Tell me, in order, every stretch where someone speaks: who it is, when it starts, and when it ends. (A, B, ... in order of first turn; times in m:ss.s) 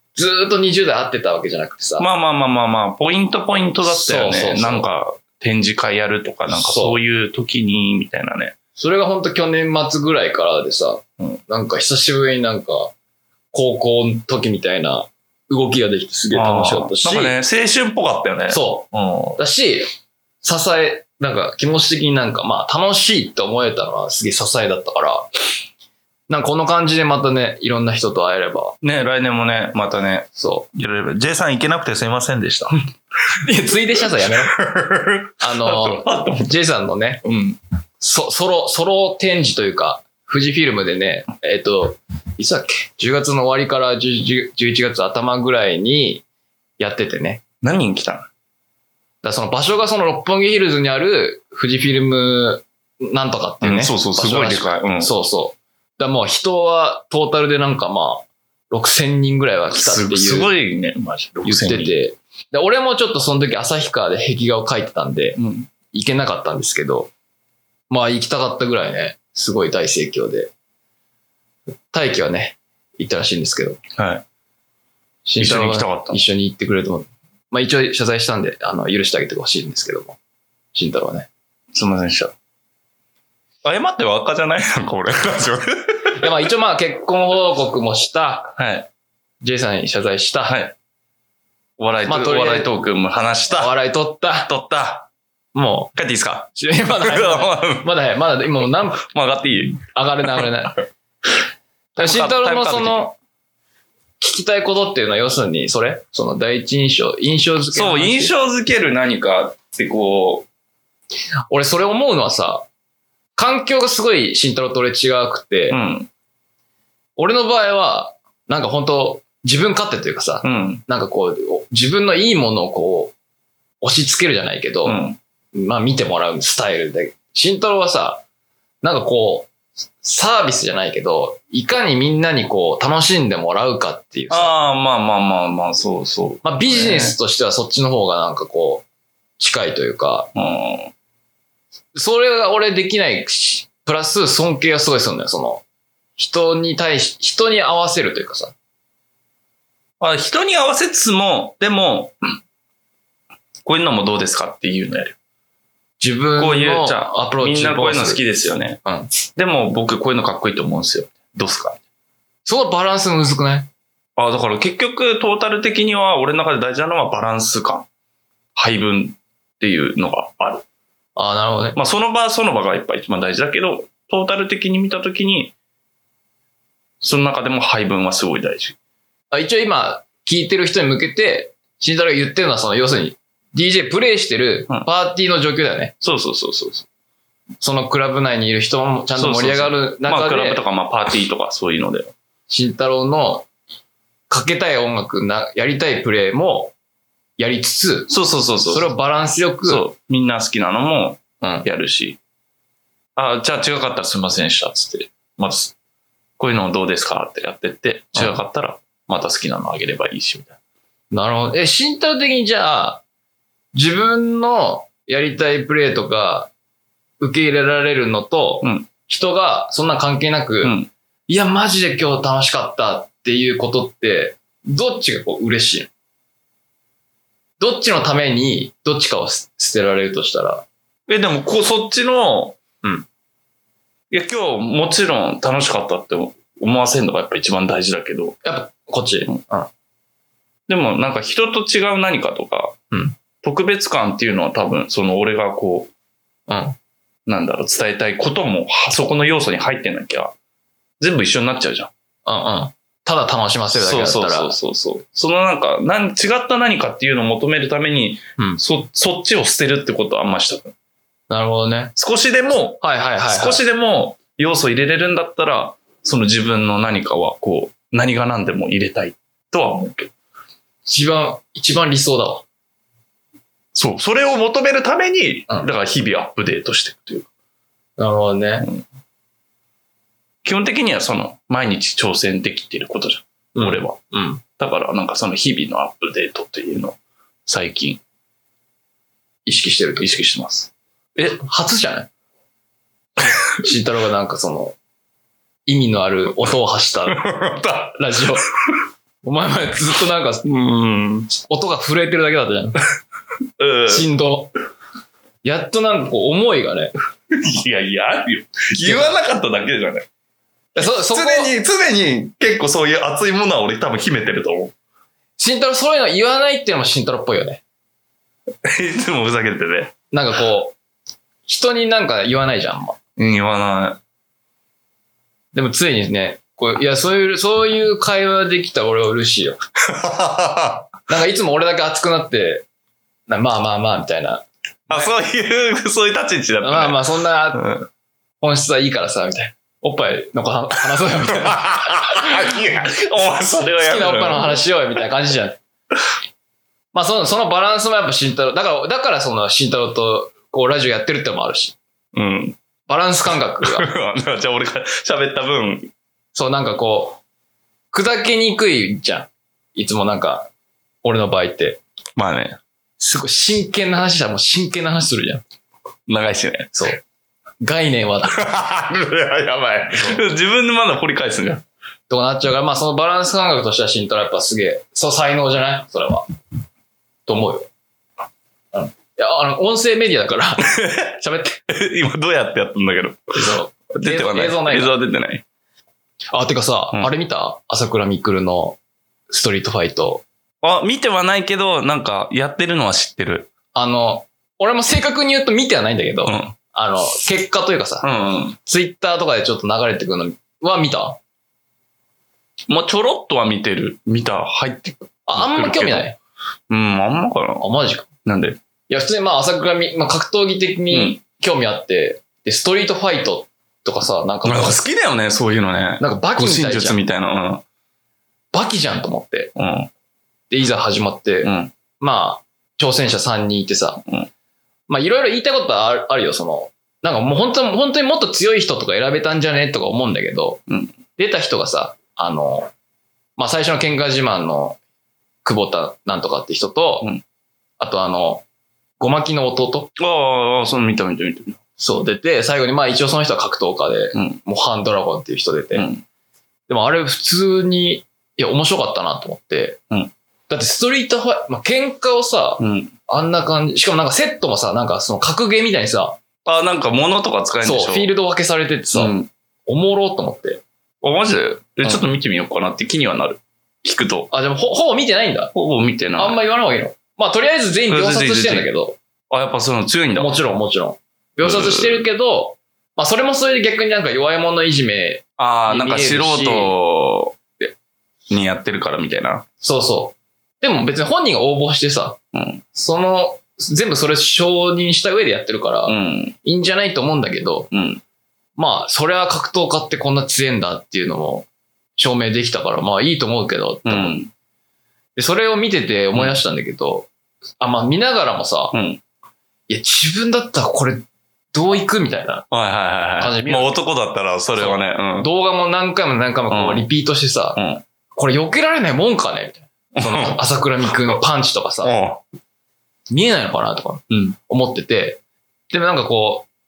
0:00.2-0:02.1 A
0:02.0-0:08.6 B
0:03.9-0:04.9 A
0:06.5-0:07.0 A
0:08.8-0:12.9 A
0:13.5-0:17.4 A
0:16.3-0:19.4 B
0:18.5-0:18.9 A
0:19.4-0:19.9 A
0:20.4-0:25.3 A
0:26.3-0:28.8 A
0:28.8-0:32.8 B
0:30.4-0:30.7 A
0:33.4-0:34.6 A
0:34.2-0:36.6 B
0:35.4-0:37.2 A
0:37.2-0:37.6 B
0:38.0-0:46.2 A
0:46.8-0:47.4 A
0:47.6-0:48.3 B
0:49.2-1:00.5 A
0:53.6-0:55.1 B
0:59.7-1:01.9 B
1:01.4-1:07.1 A
1:05.4-1:05.7 B
1:07.9-1:10.5 A
1:11.9-1:13.8 A
1:14.0-1:14.2 B
1:15.3-1:20.2 A
1:15.4-1:16.2 B
1:20.7-1:21.3 A
1:21.7-1:22.3 B
1:23.6-1:26.2 B
1:26.2-1:28.5 A
1:28.6-1:28.9 B
1:29.4-1:30.6 A
1:30.5-1:30.7 B
1:31.8-1:33.7 B
1:32.1-1:32.7 A
1:33.5-1:34.5 A
1:34.5-1:35.1 B
1:35.5-1:35.9 A
1:36.0-1:37.9 B
1:36.5-1:39.0 A
1:38.9-1:40.4 B
1:39.9-1:40.8 A
1:42.0-1:43.1 B
1:42.0-1:43.2 A
1:44.2-1:48.3 A
1:47.7-1:50.5 B
1:51.5-1:52.7 A
1:53.4-1:55.8 A
1:55.7-1:56.1 B
1:57.2-2:03.1 A
2:00.4-2:00.8 B
2:03.8-2:05.0 A
2:04.8-2:05.2 B
2:05.6-2:08.2 A
2:08.8-2:09.5 A
2:10.0-2:14.6 A
2:14.3-2:17.2 B
2:16.4-2:18.8 A
2:19.4-2:20.3 A
2:20.4-2:20.9 B
2:22.0-2:25.6 A
2:26.2-2:28.5 A
2:30.0-2:32.2 B
2:33.6-2:35.2 B
2:36.0-2:38.2 A
2:36.4-2:38.8 B
2:38.8-2:39.1 A
2:39.3-2:41.8 B
2:42.5-2:43.7 A
2:44.2-2:47.9 B
2:48.6-2:50.6 B
2:51.2-2:51.8 A
2:51.8-2:55.5 B
2:57.0-2:58.8 B
2:59.3-3:05.9 A
3:06.0-3:06.9 B
3:07.6-3:10.6 A
3:09.2-3:12.1 B
3:12.5-3:13.5 A
3:14.3-3:16.7 A
3:17.4-3:18.1 A
3:18.1-3:18.9 B
3:18.7-3:19.8 A
3:19.6-3:22.2 B
3:21.4-3:21.7 A
3:23.2-3:25.7 B
3:26.4-3:30.6 B
3:31.1-3:33.0 A
3:33.7-3:36.5 A
3:37.2-3:40.8 A
3:38.6-3:38.9 B
3:40.6-3:40.9 B
3:41.3-3:45.9 A
3:47.6-3:50.7 A
3:51.1-3:52.6 B
3:54.1-3:58.4 B
3:58.4-3:59.7 A
4:00.7-4:02.8 B
4:03.4-4:05.9 B
4:06.5-4:06.8 A
4:07.3-4:10.3 B
4:11.0-4:11.9 B
4:12.3-4:14.6 A
4:13.8-4:20.7 B
4:21.3-4:21.9 A
4:22.0-4:30.1 B
4:22.8-4:23.6 A
4:30.9-4:32.4 A
4:33.8-4:37.3 B
4:38.0-4:38.7 A
4:40.4-4:44.0 B
4:43.6-4:44.4 A
4:44.6-4:48.0 B
4:49.4-4:50.1 A
4:50.0-4:51.3 B
4:51.2-4:52.1 A
4:53.6-4:54.8 A
4:55.7-4:57.3 A
4:57.1-4:58.0 B
4:57.9-4:58.5 A
4:59.2-5:02.8 A
5:03.6-5:04.0 B
5:03.9-5:04.5 A
5:05.4-5:06.9 A
5:07.3-5:10.1 B
5:08.8-5:09.2 A
5:10.8-5:11.5 A
5:10.8-5:14.7 B
5:15.4-5:17.6 A
5:18.6-5:19.9 B
5:20.1-5:20.8 A
5:21.5-5:23.0 A
5:23.2-5:24.0 B
5:25.5-5:29.6 A
5:29.9-5:30.8 B
5:31.1-5:32.7 A
5:33.3-5:35.1 A
5:34.9-5:37.0 B
5:36.6-5:37.8 A
5:37.6-5:37.8 B
5:38.4-5:42.6 A
5:41.3-5:44.6 B
5:43.8-5:45.6 A
5:46.9-5:51.8 A
5:52.1-5:52.6 B
5:52.9-5:53.9 A
5:53.6-5:55.9 B
5:56.3-5:57.2 A
5:57.9-6:00.5 A
6:01.0-6:01.8 A
6:02.2-6:02.6 B
6:03.0-6:05.4 A
6:06.1-6:06.7 B
6:06.7-6:07.0 A
6:07.6-6:08.4 A
6:08.3-6:11.6 B
6:09.9-6:10.2 A
6:12.1-6:16.3 A
6:17.3-6:17.7 A
6:18.7-6:21.6 A
6:20.7-6:21.1 B
6:21.7-6:23.3 B
6:23.4-6:25.0 A
6:24.0-6:25.4 B
6:26.3-6:28.8 A
6:29.3-6:30.2 A
6:30.6-6:33.5 B
6:33.7-6:38.1 A
6:36.3-6:36.5 B
6:38.0-6:38.6 B
6:38.6-6:41.2 A
6:42.7-6:46.1 B
6:45.3-6:46.2 A
6:46.7-6:47.6 B
6:47.6-6:48.1 A
6:48.2-6:48.6 B
6:48.9-6:54.8 A
6:50.9-6:51.2 B
6:54.4-6:57.6 B
6:56.0-6:57.0 A
6:58.5-6:59.5 A
6:59.6-6:59.9 B
7:00.5-7:04.0 A
7:01.4-7:01.7 B
7:04.9-7:10.6 A
7:10.7-7:10.9 B
7:11.2-7:12.7 A
7:13.4-7:14.8 A
7:15.4-7:17.1 A
7:17.8-7:18.4 A
7:19.0-7:19.9 A
7:20.0-7:21.6 B
7:21.8-7:25.9 A
7:24.1-7:24.4 B
7:25.8-7:26.0 B
7:26.7-7:29.8 A
7:30.5-7:36.2 A
7:32.6-7:32.9 B
7:36.4-7:38.1 B
7:37.6-7:39.1 A
7:39.0-7:39.3 B
7:39.7-7:40.6 A
7:41.0-7:44.3 B
7:44.3-7:45.5 A
7:45.5-7:46.4 B
7:46.2-7:49.0 A
7:47.9-7:48.7 B
7:49.3-7:50.3 B
7:50.2-7:56.8 A
7:51.4-7:52.0 B
7:55.4-7:57.7 B
7:58.3-7:59.4 B
7:59.6-8:02.2 A
8:02.3-8:02.6 B
8:02.7-8:07.7 A
8:05.9-8:06.4 B
8:07.7-8:08.0 B
8:08.6-8:14.2 A
8:13.9-8:14.3 B
8:15.2-8:17.1 A
8:17.6-8:18.8 A
8:18.7-8:19.0 B
8:19.7-8:22.4 A
8:22.5-8:25.3 B
8:23.2-8:23.8 A
8:24.6-8:27.6 A
8:26.5-8:26.9 B
8:27.6-8:27.8 B
8:28.2-8:31.9 A
8:30.0-8:30.4 B
8:31.8-8:32.2 B
8:33.1-8:35.2 A
8:34.1-8:34.4 B
8:35.7-8:36.5 A